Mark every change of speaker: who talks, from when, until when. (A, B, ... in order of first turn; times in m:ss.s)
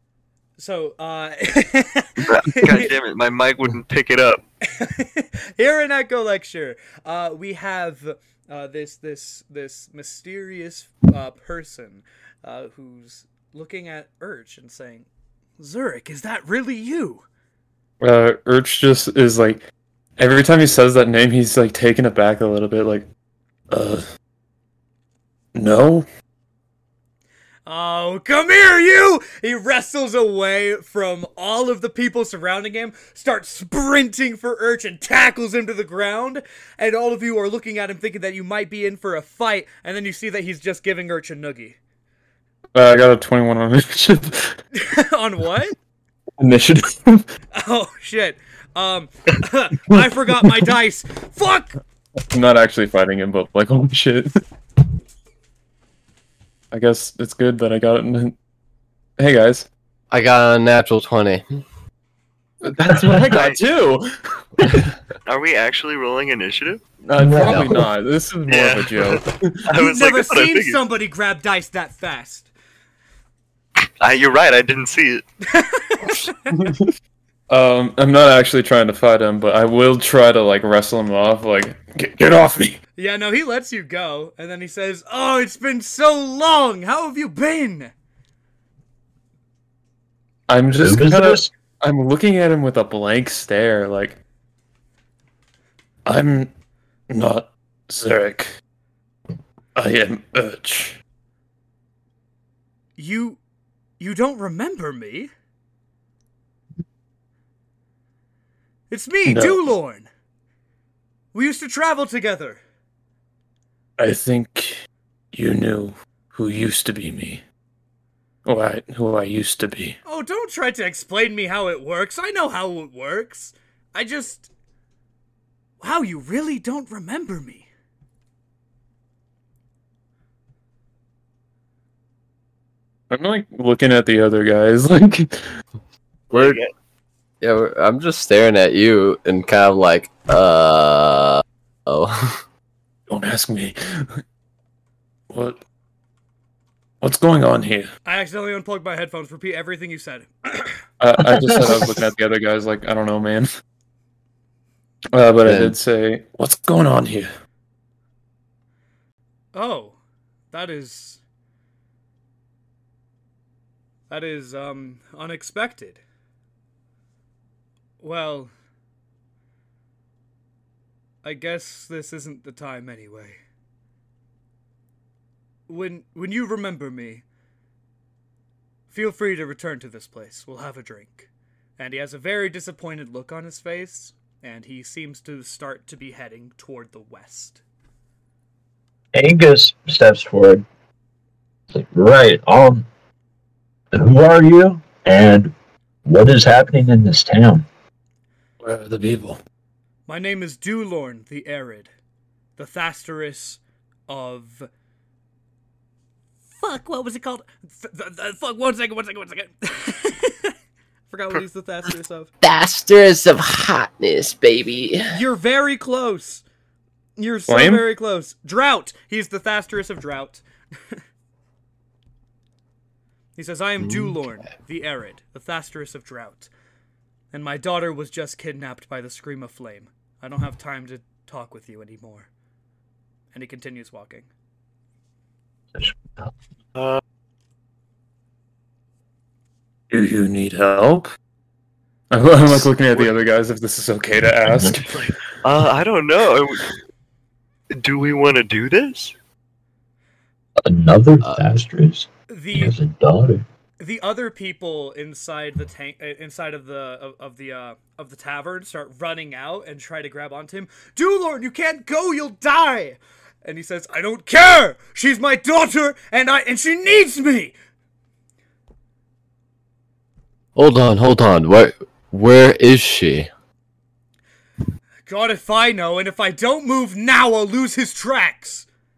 0:00.6-0:02.9 A
0:02.3-0:04.4 B
0:04.6-0:15.1 A
0:15.6-0:17.3 A
0:18.0-0:19.6 C
0:20.2-0:23.1 C
0:23.7-0:24.0 C
0:25.6-0:26.1 C
0:27.7-0:41.8 A
0:42.7-0:44.6 C
0:44.7-0:45.8 A
0:46.4-0:47.3 C
0:47.5-0:51.8 A
0:49.9-0:50.5 C
0:52.2-0:54.4 C
0:56.7-0:58.4 C
0:59.2-0:59.7 C
1:00.1-1:01.4 D
1:02.6-1:04.9 C
1:03.3-1:03.6 B
1:05.2-1:06.8 B
1:07.0-1:09.7 C
1:07.2-1:07.8 E
1:07.4-1:07.8 D
1:08.5-1:10.8 B
1:09.8-1:12.5 A
1:14.0-1:15.2 B
1:15.4-1:16.7 A
1:16.5-1:16.9 C
1:17.5-1:22.8 C
1:23.0-1:27.9 A
1:30.5-1:34.2 C
1:30.8-1:31.5 E
1:36.0-1:36.5 C
1:37.1-1:38.6 C
1:39.8-1:41.0 C
1:43.0-1:43.4 A
1:44.0-1:45.3 A
1:48.9-1:50.1 A
1:49.2-1:49.6 C
1:51.3-1:52.6 A
1:54.0-1:57.4 C
1:58.4-2:00.0 C
2:00.0-2:04.5 A
2:05.8-2:07.7 A
2:13.1-2:15.6 C
2:16.3-2:16.7 B
2:16.3-2:16.6 D
2:17.4-2:22.4 D
2:23.1-2:24.2 C
2:25.3-2:25.6 C
2:27.0-2:27.9 C
2:28.0-2:30.9 A
2:31.0-2:33.5 C
2:31.2-2:32.0 E
2:35.1-2:37.3 C
2:35.4-2:35.8 D
2:39.5-2:40.0 A
2:40.5-2:41.2 A
2:44.1-2:46.0 A
2:48.0-2:48.5 A
2:51.2-2:53.4 A
2:55.7-2:57.2 A
2:58.9-3:07.6 A
3:09.1-3:10.6 E
3:11.7-3:12.9 E
3:13.9-3:15.5 E
3:16.0-3:17.7 E
3:18.6-3:19.4 C
3:20.1-3:21.9 A
3:22.6-3:24.7 A
3:26.6-3:30.5 A
3:31.1-3:32.3 A
3:32.4-3:35.2 D
3:35.1-3:36.4 A
3:37.2-3:41.0 A
3:37.5-3:37.8 C
3:43.4-3:46.5 A
3:43.8-3:44.2 D
3:47.3-3:52.3 A
3:53.3-3:54.3 A
3:55.8-3:56.3 E
3:56.8-3:57.0 B
3:59.9-4:01.1 C
4:02.1-4:05.0 C
4:04.5-4:04.8 E
4:05.4-4:06.6 B
4:07.7-4:09.1 B
4:10.6-4:13.4 E
4:12.3-4:12.8 A
4:13.8-4:27.6 A
4:30.6-4:33.3 D
4:35.1-4:38.7 A